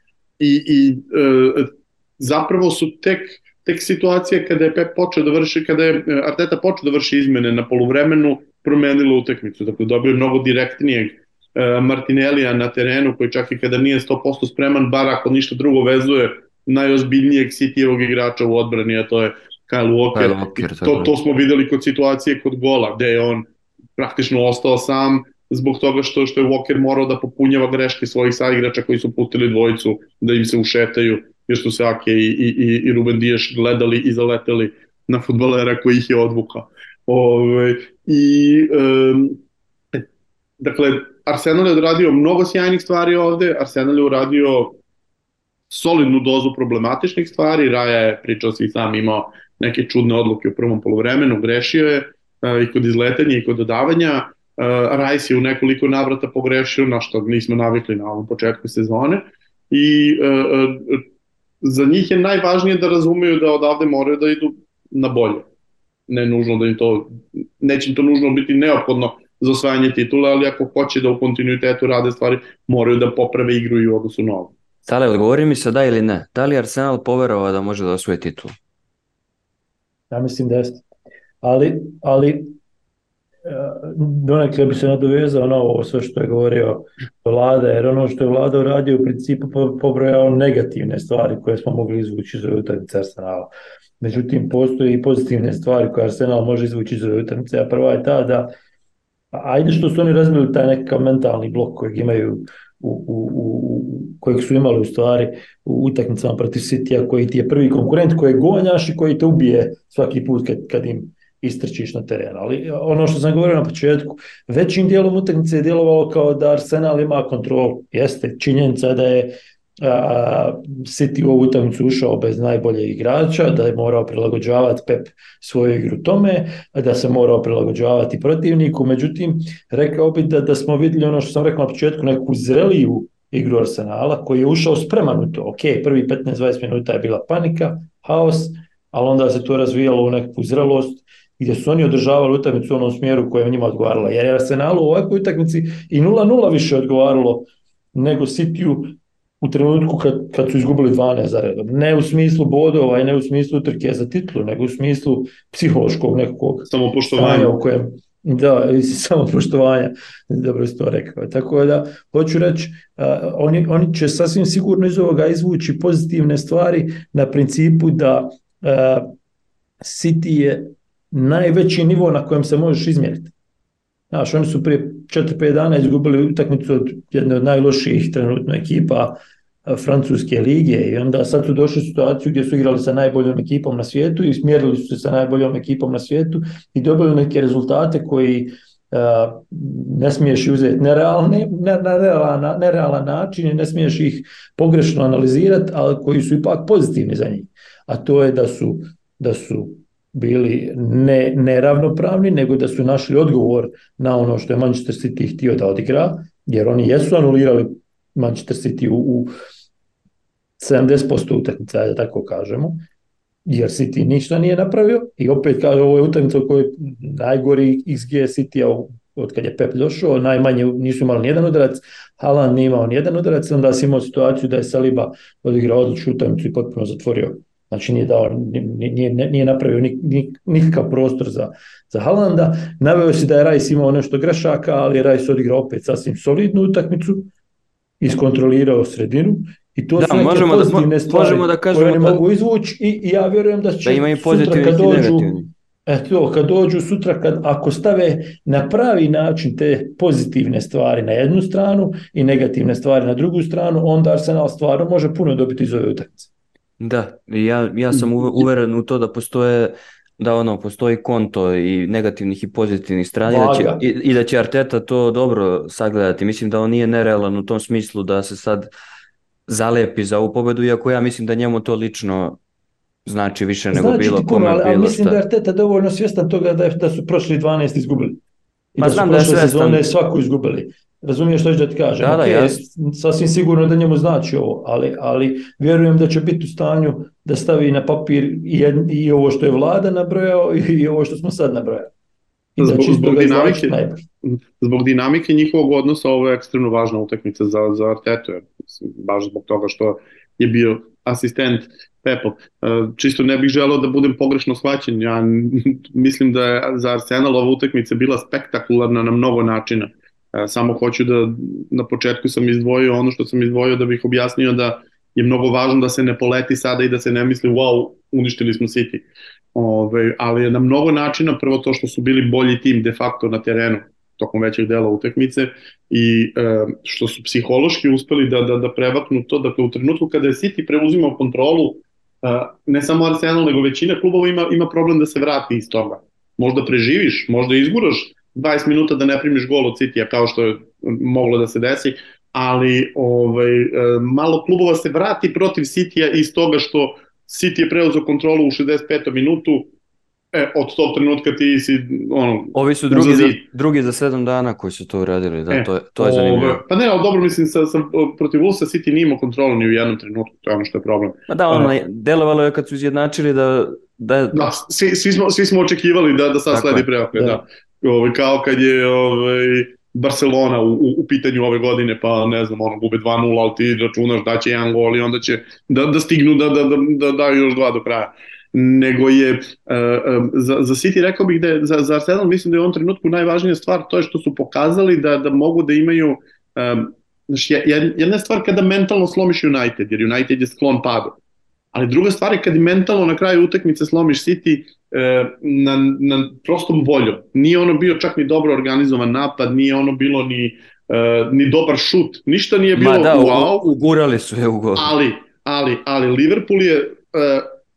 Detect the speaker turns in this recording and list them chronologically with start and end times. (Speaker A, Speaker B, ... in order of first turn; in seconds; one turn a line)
Speaker A: 0.4-39.4
Speaker B: 20.1-21.1
Speaker A: 40.6-44.8
Speaker A: 45.7-61.0
Speaker A: 61.6-65.5
Speaker A: 66.1-74.5
Speaker B: 74.9-78.5
Speaker C: 80.1-80.8
Speaker C: 81.4-82.5
Speaker C: 83.5-98.5
Speaker C: 99.3-169.1
Speaker A: 156.7-157.6
Speaker C: 169.8-173.3
Speaker C: 174.1-209.3
Speaker C: 210.6-212.8
Speaker C: 213.5-237.3
Speaker C: 238.0-245.3
Speaker B: 240.0-242.2
Speaker B: 243.8-245.5
Speaker C: 245.9-256.3
Speaker B: 256.8-268.7
Speaker C: 263.3-263.8
Speaker B: 269.5-272.4
Speaker B: 273.1-275.2
Speaker C: 273.7-278.2
Speaker C: 278.8-291.9
Speaker B: 278.8-279.8
Speaker B: 282.0-282.6
Speaker C: 292.6-294.0
Speaker A: 292.6-319.0
Speaker A: 319.6-349.7
Speaker A: 350.3-353.4
Speaker B: 352.5-356.6
Speaker A: 355.5-361.7
Speaker B: 361.3-364.5
Speaker A: 364.3-391.2
Speaker B: 366.5-366.9
Speaker C: 367.1-367.4
Speaker A: 391.7-403.7
Speaker B: 402.8-404.9
Speaker A: 404.8-407.5